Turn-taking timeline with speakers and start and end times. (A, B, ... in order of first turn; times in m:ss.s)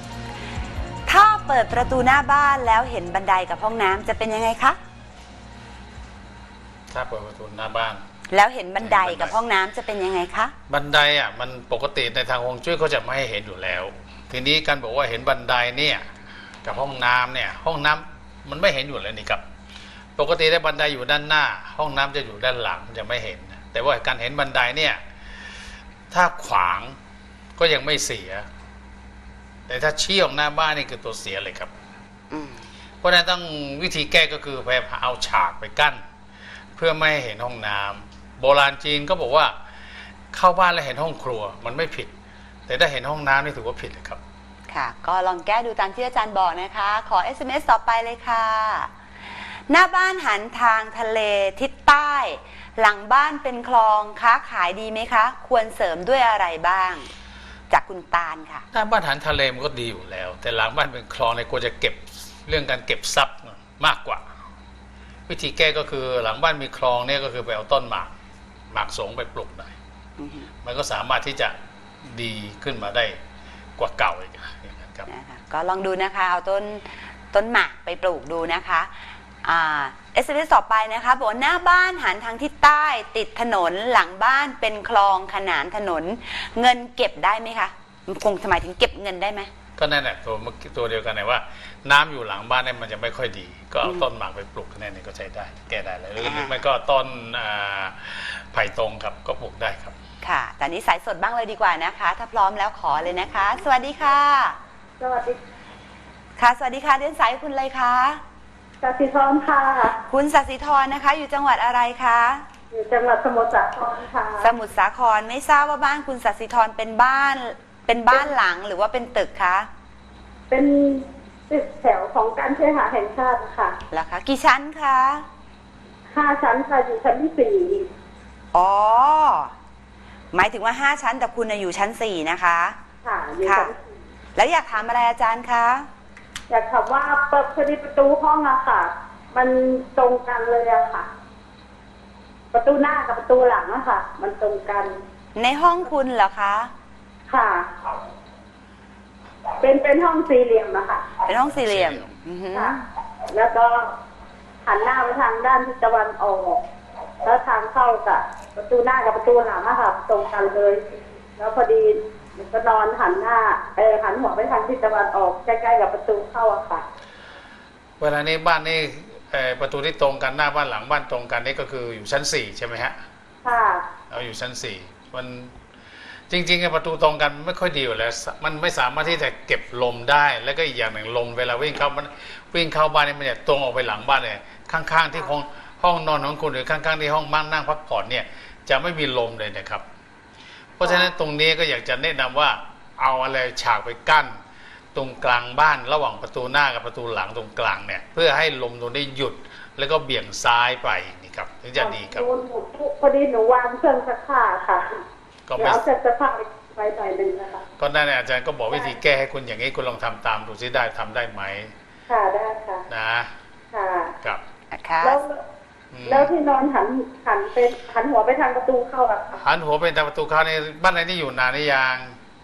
0:01.1-0:04.8 A
0:06.9-0:08.0 B
0:08.3-0:10.6 A
0:08.8-0:09.4 B
0:10.7-0:16.0 B
0:16.6-0:19.4 B
0:20.2-0:25.0 B
0:26.1-0:27.0 B
0:27.6-0:28.5 B
0:29.7-0:31.7 B
0:32.3-0:32.6 A
0:33.0-0:36.0 B
0:36.8-0:39.6 B
0:40.3-0:42.1 B
0:42.7-0:44.2 B
0:44.7-0:48.9 A
0:49.7-0:57.1 A
0:57.7-0:58.7 A
0:58.7-1:04.2 B
1:05.3-1:08.1 B
1:08.7-1:09.7 B
1:10.2-1:10.5 A
1:10.6-1:11.6 B
1:12.1-1:13.2 B
1:13.8-1:15.1 B
1:15.1-1:18.9 A
1:19.4-1:29.5 A
1:29.8-1:40.0 B
1:36.2-1:36.6 A
1:40.2-1:44.6 A
1:45.0-1:45.4 C
1:46.4-1:48.2 A
1:48.8-1:50.0 C
1:50.0-1:52.4 A
1:52.7-1:54.5 C
1:54.4-1:59.7 A
2:00.5-2:03.8 C
2:03.9-2:05.2 A
2:06.1-2:07.9 C
2:08.5-2:09.5 A
2:10.3-2:12.8 A
2:13.0-2:13.8 C
2:13.4-2:13.7 A
2:14.4-2:15.9 A
2:16.5-2:21.1 C
2:22.5-2:24.9 C
2:25.4-2:26.7 A
2:27.3-2:27.9 C
2:29.6-2:31.2 C
2:31.2-2:32.8 A
2:31.5-2:32.1 B
2:32.5-2:34.0 C
2:34.7-2:36.6 C
2:37.2-2:46.8 C
2:48.0-2:53.0 B
2:53.4-2:53.9 C
2:54.1-2:55.5 B
2:56.3-3:09.8 B
3:10.8-3:14.4 B
3:15.0-3:22.3 B
3:21.8-3:25.0 C
3:25.5-3:25.8 B
3:25.6-3:27.6 C
3:27.8-3:31.7 B
3:32.1-3:32.8 C
3:32.9-3:33.3 B
3:33.7-3:34.2 C
3:34.7-3:35.2 A
3:35.0-3:35.4 C
3:35.9-3:36.3 B
3:36.1-3:39.4 C
3:39.4-3:42.2 B